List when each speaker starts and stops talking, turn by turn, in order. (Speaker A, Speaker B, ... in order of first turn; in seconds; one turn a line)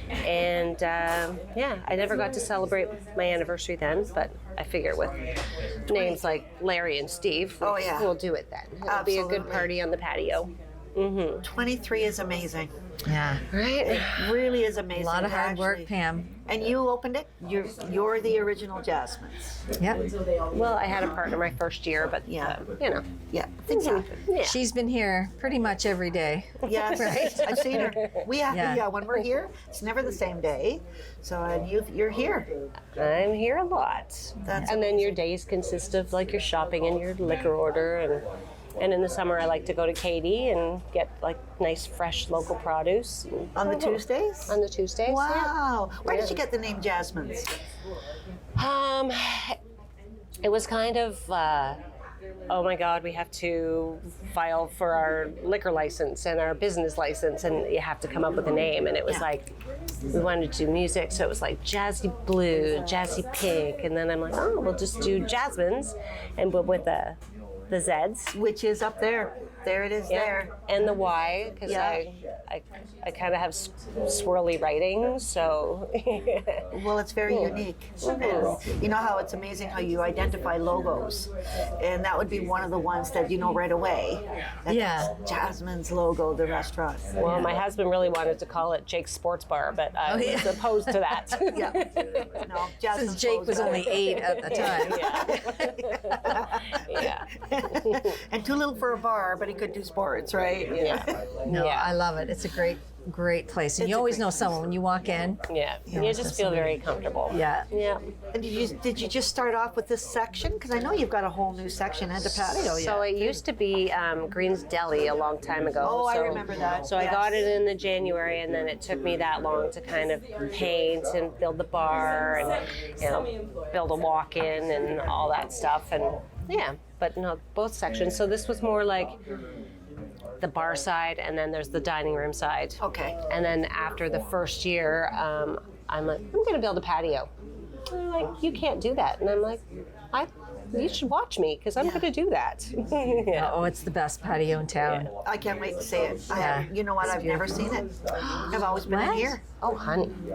Speaker A: 0.2-5.2
Speaker B: 5.9-6.2
Speaker A: 5.9-11.4
Speaker B: 7.6-8.1
Speaker B: 8.9-9.7
Speaker B: 11.4-12.7
Speaker C: 13.0-13.4
Speaker A: 13.5-14.3
Speaker B: 13.9-15.9
Speaker C: 14.9-16.3
Speaker B: 16.5-19.5
Speaker A: 20.5-23.0
Speaker B: 22.2-22.6
Speaker B: 23.3-24.1
Speaker A: 23.7-24.6
Speaker C: 24.4-27.9
Speaker B: 26.6-32.5
Speaker A: 26.8-28.1
Speaker C: 28.5-28.9
Speaker A: 33.0-38.3
Speaker B: 34.4-35.2
Speaker A: 38.8-45.5
Speaker B: 43.5-47.5
Speaker A: 46.0-46.4
Speaker A: 48.6-49.5
Speaker A: 50.4-51.8
Speaker A: 52.5-59.5
Speaker A: 60.1-67.2
Speaker A: 67.7-68.4
Speaker B: 68.3-70.5
Speaker A: 70.1-76.6
Speaker B: 71.7-72.0
Speaker B: 76.7-81.3
Speaker A: 77.3-78.6
Speaker B: 81.8-87.1
Speaker C: 84.7-85.1
Speaker A: 87.2-92.4
Speaker C: 87.2-87.5
Speaker C: 90.1-91.3
Speaker B: 91.5-91.8
Speaker B: 92.4-101.2
Speaker C: 92.9-95.7
Speaker A: 94.4-98.2
Speaker A: 100.8-102.0
Speaker C: 101.5-105.4
Speaker B: 103.8-104.6
Speaker A: 105.5-108.0
Speaker B: 105.9-106.2
Speaker C: 105.9-106.8
Speaker C: 107.3-107.7
Speaker B: 108.3-113.1
Speaker C: 112.2-113.4
Speaker A: 112.7-129.2
Speaker B: 115.8-117.4
Speaker A: 130.4-137.3
Speaker B: 132.8-133.2
Speaker A: 137.9-143.5
Speaker B: 141.8-142.1
Speaker C: 143.3-145.1
Speaker B: 145.2-147.9
Speaker C: 146.3-147.3
Speaker B: 148.5-149.4
Speaker C: 148.8-149.4
Speaker A: 149.6-150.2